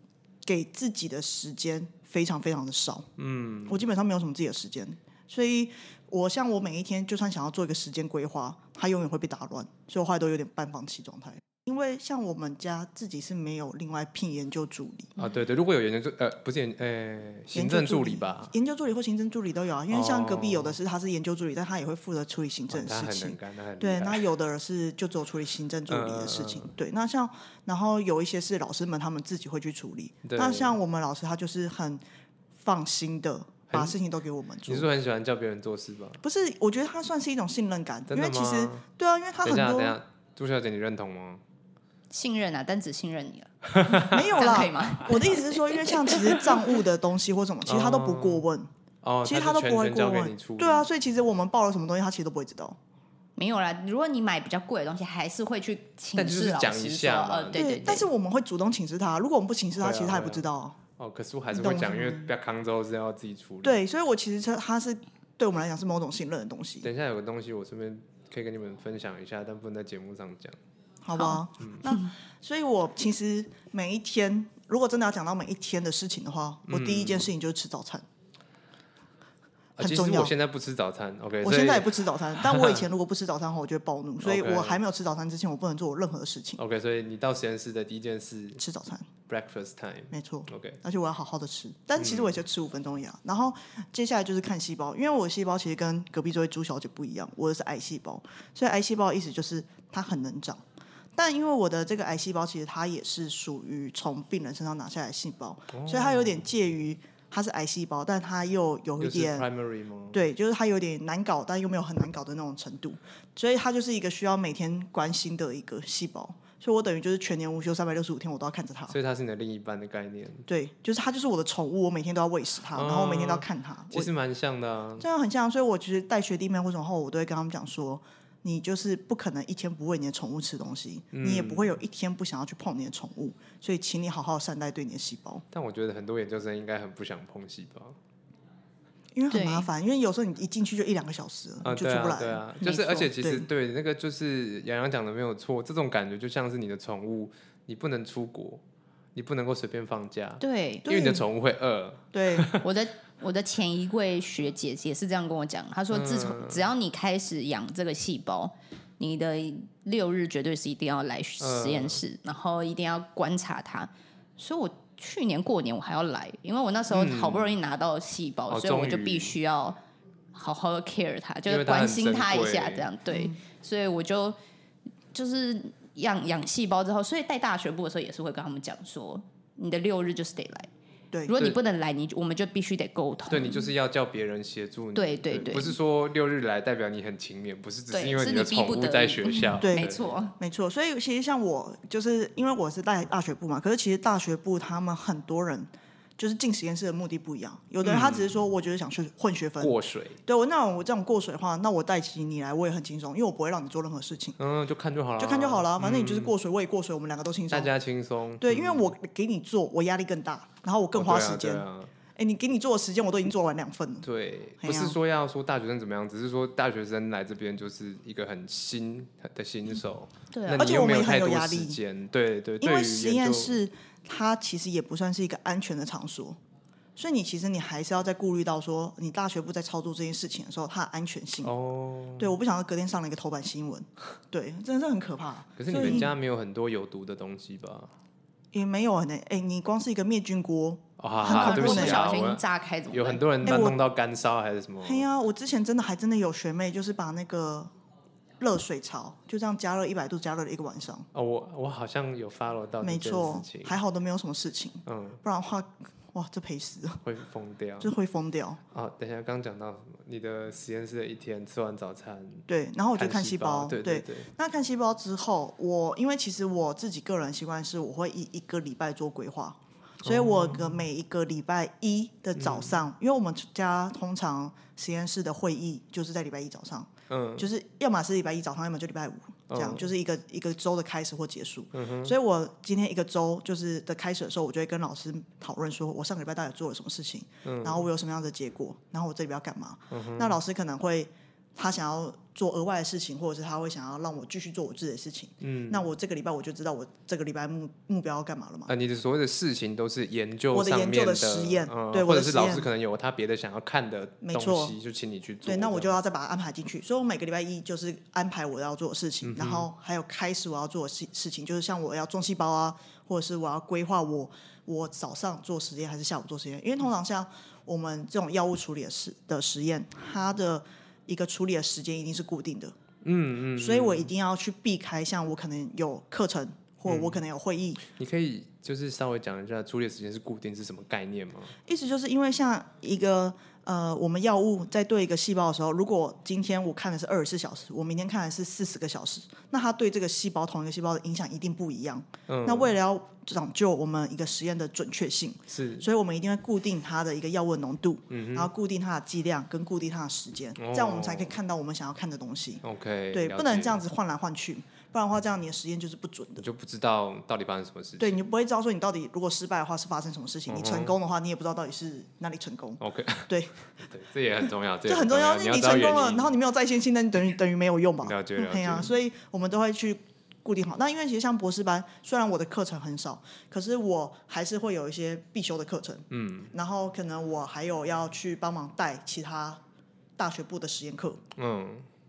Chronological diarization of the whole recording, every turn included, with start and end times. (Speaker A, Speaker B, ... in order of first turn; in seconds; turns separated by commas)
Speaker A: 0.5-3.1, Speaker B: 3.2-3.8, Speaker A: 3.6-15.2, Speaker B: 15.2-18.5, Speaker A: 17.5-32.0, Speaker B: 19.9-20.8, Speaker B: 22.7-24.3, Speaker B: 25.9-26.7, Speaker B: 30.2-30.8, Speaker A: 32.6-34.9, Speaker B: 33.7-34.0, Speaker B: 34.7-36.2, Speaker A: 36.2-40.0, Speaker B: 38.1-38.9, Speaker B: 39.4-41.4, Speaker C: 42.1-46.8, Speaker B: 43.7-44.5, Speaker A: 43.9-48.7, Speaker B: 47.6-48.5, Speaker B: 49.0-50.9, Speaker A: 49.2-52.8, Speaker C: 53.4-58.1, Speaker B: 56.1-58.0, Speaker A: 57.5-60.8, Speaker B: 59.8-60.5, Speaker B: 61.0-63.8, Speaker A: 61.5-62.3, Speaker A: 63.6-66.9, Speaker B: 66.8-70.6, Speaker A: 71.0-78.0, Speaker C: 71.2-72.1, Speaker B: 76.7-77.3, Speaker B: 79.8-82.9, Speaker A: 79.8-80.3, Speaker A: 81.4-86.6, Speaker B: 84.2-84.8, Speaker B: 86.6-88.6, Speaker A: 88.6-89.1, Speaker B: 89.3-90.8, Speaker A: 90.1-100.6, Speaker B: 92.0-92.4, Speaker A: 101.2-109.5, Speaker B: 105.7-106.4, Speaker B: 109.0-110.2, Speaker A: 110.1-119.0, Speaker B: 118.9-120.5, Speaker A: 120.5-124.1, Speaker B: 122.7-125.0, Speaker A: 125.0-135.4, Speaker B: 131.1-131.8, Speaker B: 135.5-138.0, Speaker A: 139.2-143.5, Speaker C: 139.3-139.7, Speaker B: 141.6-148.6, Speaker B: 149.1-152.7, Speaker C: 150.4-150.9, Speaker A: 150.8-151.2, Speaker A: 152.1-152.5, Speaker C: 152.6-169.8, Speaker B: 155.9-156.7, Speaker B: 161.4-162.0, Speaker B: 166.9-167.6, Speaker B: 168.5-169.4, Speaker C: 170.3-174.4, Speaker B: 171.5-172.9, Speaker A: 173.1-173.4, Speaker C: 175.1-180.7, Speaker C: 181.3-183.7, Speaker B: 183.3-190.2, Speaker C: 184.9-185.8, Speaker C: 187.9-190.3, Speaker A: 189.6-204.4, Speaker B: 197.8-198.3, Speaker B: 199.6-200.2, Speaker B: 204.4-206.3, Speaker A: 205.2-207.7, Speaker B: 207.5-208.9, Speaker A: 208.4-214.1, Speaker B: 210.9-211.9, Speaker B: 214.0-223.6, Speaker A: 214.6-215.0, Speaker C: 220.3-220.7, Speaker A: 220.6-221.8, Speaker A: 222.6-226.4, Speaker A: 227.0-231.5, Speaker B: 231.4-232.4, Speaker A: 232.2-236.1, Speaker B: 235.6-237.9, Speaker A: 238.5-242.1, Speaker B: 241.0-245.1, Speaker C: 241.2-243.2, Speaker A: 243.4-243.8, Speaker A: 244.8-247.7, Speaker A: 248.4-251.1, Speaker B: 251.1-253.8, Speaker A: 252.8-257.0, Speaker B: 254.9-255.2, Speaker B: 257.0-257.9, Speaker A: 257.8-258.6, Speaker B: 258.7-264.3, Speaker A: 262.5-298.7, Speaker B: 270.0-270.8, Speaker B: 272.4-272.8, Speaker B: 277.1-277.5, Speaker B: 279.5-279.9, Speaker B: 281.7-282.1, Speaker B: 287.4-287.9, Speaker B: 289.9-290.4, Speaker B: 295.4-295.9, Speaker B: 298.7-305.9, Speaker A: 300.5-302.7, Speaker A: 304.2-304.8, Speaker A: 305.4-322.8, Speaker B: 309.2-309.7, Speaker B: 323.0-324.1, Speaker A: 323.6-327.8, Speaker B: 326.9-327.2, Speaker B: 327.8-331.6, Speaker A: 331.6-356.4, Speaker B: 342.3-342.7, Speaker B: 345.5-345.9, Speaker B: 348.1-348.5, Speaker B: 350.6-351.4, Speaker B: 352.6-353.8, Speaker B: 356.4-358.2, Speaker A: 358.0-363.6, Speaker B: 360.5-361.0, Speaker B: 362.8-366.4, Speaker A: 364.9-379.6, Speaker B: 368.0-368.9, Speaker B: 376.1-376.5, Speaker A: 380.2-381.2, Speaker B: 381.4-381.9